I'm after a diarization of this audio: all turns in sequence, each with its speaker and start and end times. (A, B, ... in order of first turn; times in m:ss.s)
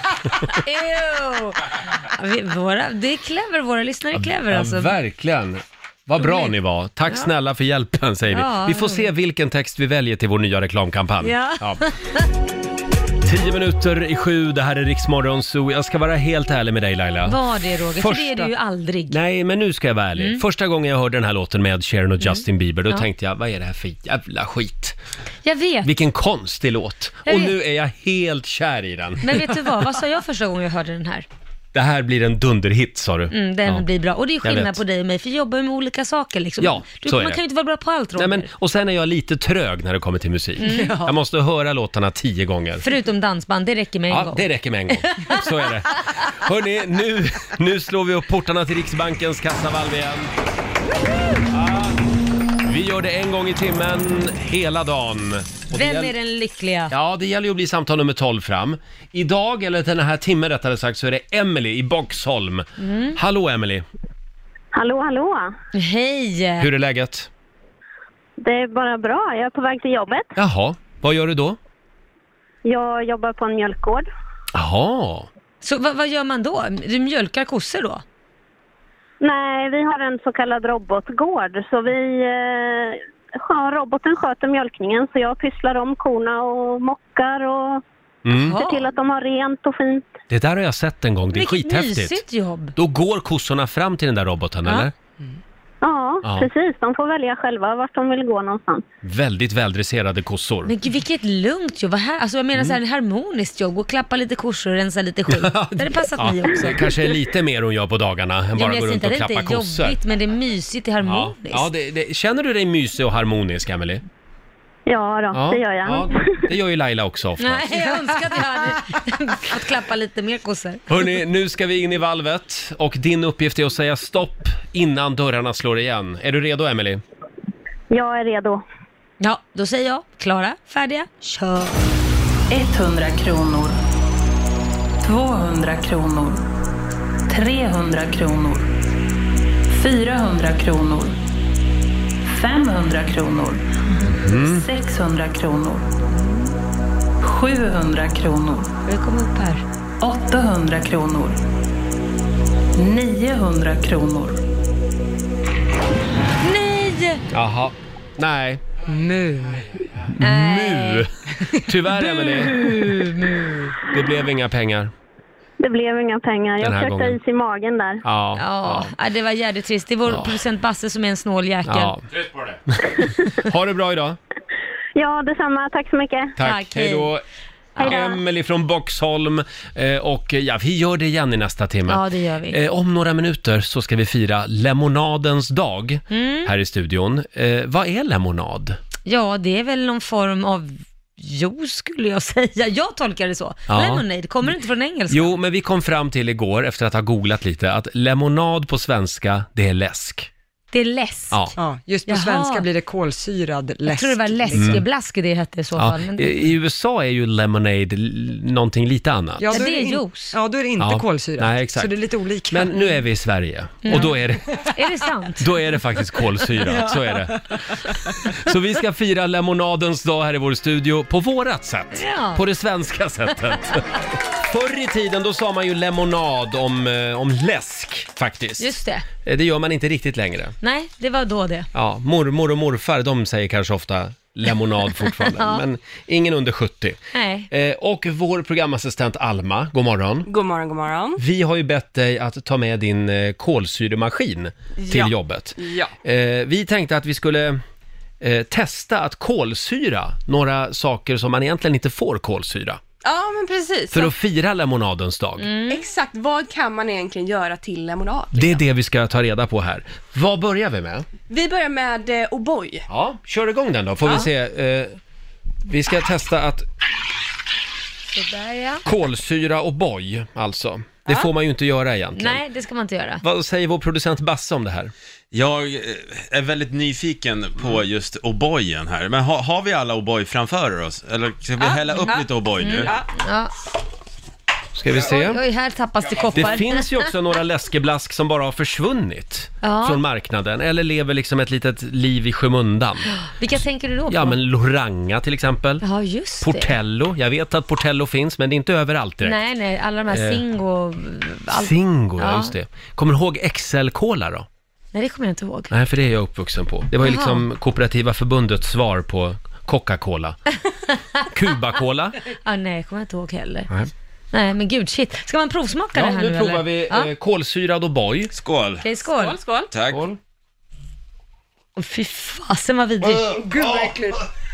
0:00.5-0:04.9 A
0:04.1-0:11.8 B
0:06.2-0:06.5 A
0:08.3-0:09.1 A
0:11.2-0:12.3 A
0:13.2-0:17.4 B
0:17.3-0:19.2 A
0:18.0-0:18.5 B
0:19.1-0:25.0 B
0:20.2-0:20.4 A
0:22.2-0:23.1 A
0:25.4-0:25.9 A
0:25.8-0:29.4 B
0:27.2-0:27.5 A
0:29.2-0:31.2 A
0:31.7-0:33.8 B
0:33.3-0:38.5 A
0:34.4-0:34.8 B
0:36.6-0:37.4 B
0:38.2-0:42.8 B
0:40.6-0:41.1 A
0:40.7-0:41.1 C
0:42.8-0:45.4 A
0:44.1-0:50.3 B
0:51.5-0:52.0 B
0:52.6-0:56.1 B
0:55.7-0:56.9 A
0:56.9-1:03.8 B
1:02.8-1:03.2 A
1:04.7-1:05.5 D
1:05.7-1:06.7 A
1:06.6-1:07.3 B
1:08.4-1:10.3 D
1:10.4-1:11.6 B
1:12.6-1:14.1 D
1:14.5-1:15.3 B
1:15.6-1:18.0 A
1:19.2-1:27.8 D
1:28.2-1:28.6 B
1:28.4-1:28.8 A
1:28.5-1:30.1 D
1:30.3-1:32.2 B
1:31.3-1:32.7 A
1:32.8-1:34.9 B
1:35.8-1:38.8 D
1:36.2-1:36.5 B
1:39.0-1:40.7 B
1:40.6-1:46.9 A
1:45.3-1:50.0 B
1:48.6-1:51.7 A
1:51.0-1:54.0 B
1:54.9-1:56.3 D
1:55.3-1:57.8 B
1:57.4-2:00.8 A
2:00.9-2:07.0 B
2:07.9-2:08.6 D
2:09.2-2:11.8 A
2:12.5-2:13.8 E
2:15.0-2:16.4 E
2:17.3-2:18.7 E
2:19.7-2:21.2 E
2:22.2-2:25.9 E
2:24.1-2:24.6 B
2:27.2-2:28.7 E
2:28.8-2:29.6 A
2:30.0-2:31.4 E
2:32.7-2:34.4 E
2:36.4-2:37.2 A
2:37.3-2:38.6 B
2:38.8-2:39.7 C
2:39.9-2:43.0 B
2:40.2-2:41.0 A
2:42.0-2:43.6 A
2:43.8-2:44.9 B
2:45.6-2:48.0 D
2:46.6-2:47.2 B
2:48.0-2:48.9 B
2:48.4-2:52.0 A
2:50.1-2:50.4 B
2:51.7-2:52.0 B
2:52.7-2:54.2 B
2:55.0-2:56.3 D
2:56.4-2:57.2 B
2:56.4-2:57.1 A
2:57.8-2:58.2 D
2:57.8-3:08.8 B
3:01.9-3:02.6 A
3:06.1-3:06.5 A
3:09.0-3:15.4 A
3:13.7-3:14.0 B
3:15.1-3:20.3 B
3:20.7-3:21.5 A
3:21.6-3:24.8 C
3:22.1-3:22.7 A
3:23.9-3:26.3 A
3:24.5-3:24.8 B
3:25.8-3:29.5 B
3:29.4-3:32.9 C
3:29.5-3:30.3 A
3:30.8-3:31.9 B
3:32.5-3:34.6 B
3:33.8-3:35.6 A
3:35.4-3:48.7 B
3:36.7-3:37.5 C
3:41.9-3:42.4 A
3:48.6-3:49.0 A
3:49.2-3:50.5 B
3:50.6-3:51.7 A
3:51.7-3:57.0 B
3:55.1-3:55.6 A
3:57.1-3:57.5 A
3:57.5-4:00.3 B
4:00.3-4:01.2 F
4:01.2-4:07.6 B
4:04.8-4:05.9 F
4:08.2-4:12.8 B
4:13.0-4:14.1 F
4:13.9-4:15.5 B
4:15.4-4:15.8 A
4:15.7-4:18.6 F
4:18.3-4:21.0 B
4:21.3-4:22.8 F
4:22.9-4:25.0 B
4:25.6-4:26.6 B
4:28.1-4:28.8 A
4:28.8-4:32.4 B
4:32.2-4:33.2 A
4:33.2-4:34.9 B
4:35.3-4:42.9 G
4:41.6-4:42.3 F
4:42.1-4:43.5 A
4:42.8-4:43.1 F
4:44.7-4:45.4 B
4:45.0-4:47.0 A
4:46.3-4:53.1 B
4:49.6-4:50.0 A
4:53.1-4:54.4 A
4:54.1-4:55.8 B
4:55.8-4:56.8 A
4:56.4-4:59.4 B
4:59.2-5:02.5 A
5:00.1-5:00.4 B
5:01.5-5:04.5 B
5:04.9-5:05.7 A
5:05.7-5:10.4 B
5:07.0-5:07.4 A
5:11.3-5:12.2 B
5:12.3-5:13.7 A
5:14.3-5:17.1 A
5:15.9-5:18.3 B
5:18.3-5:18.8 G
5:18.8-5:19.4 A
5:19.1-5:19.7 F
5:19.7-5:20.0 G
5:19.9-5:20.2 B
5:21.8-5:23.4 A
5:23.2-5:24.2 C